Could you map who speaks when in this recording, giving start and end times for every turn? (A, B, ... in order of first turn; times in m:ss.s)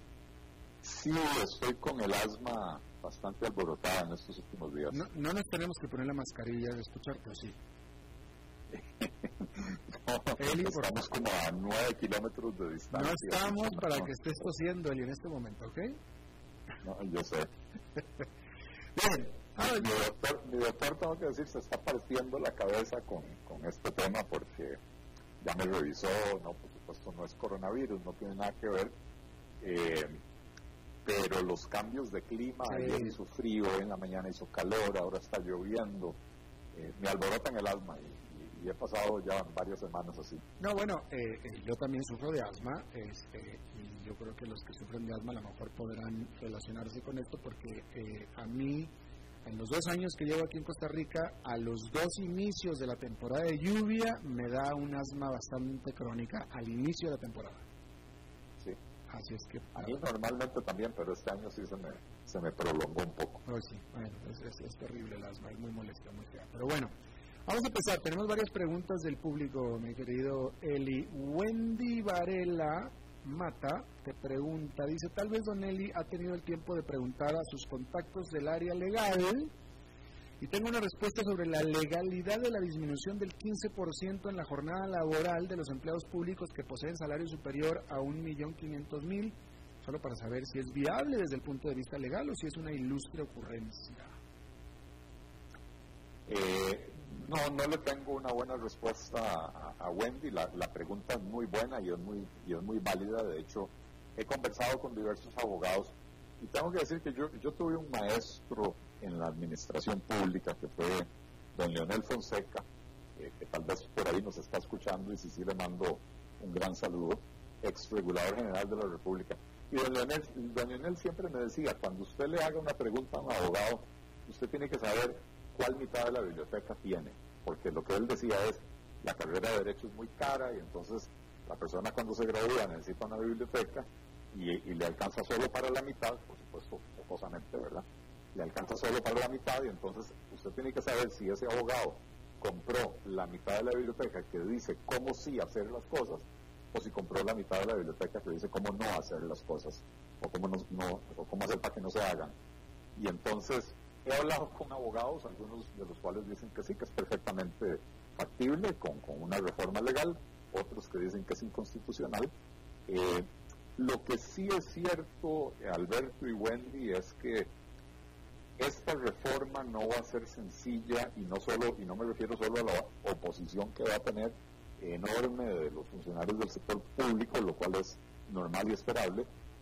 0:00.8-0:05.0 A
0:04.9-0:07.6 B
0:08.7-0:14.0 A
0:10.4-0:11.0 B
0:12.9-0:16.0 B
0:16.8-0:17.5 A
0:19.0-0:19.9 B
0:19.6-0:24.8 A
0:25.4-0:28.9 A
0:29.6-0:30.2 A
0:31.0-0:36.2 A
0:32.7-0:33.2 B
0:36.7-0:40.4 A
0:40.6-0:48.9 B
0:49.4-0:57.6 B
0:59.1-0:59.9 B
0:59.8-1:03.4 A
1:03.5-1:06.9 B
1:07.5-1:19.5 B
1:20.4-1:34.1 B
1:36.3-1:52.6 A
1:53.2-2:32.3 A
2:33.0-2:42.3 A
2:42.9-2:47.5 A
2:48.6-2:59.3 A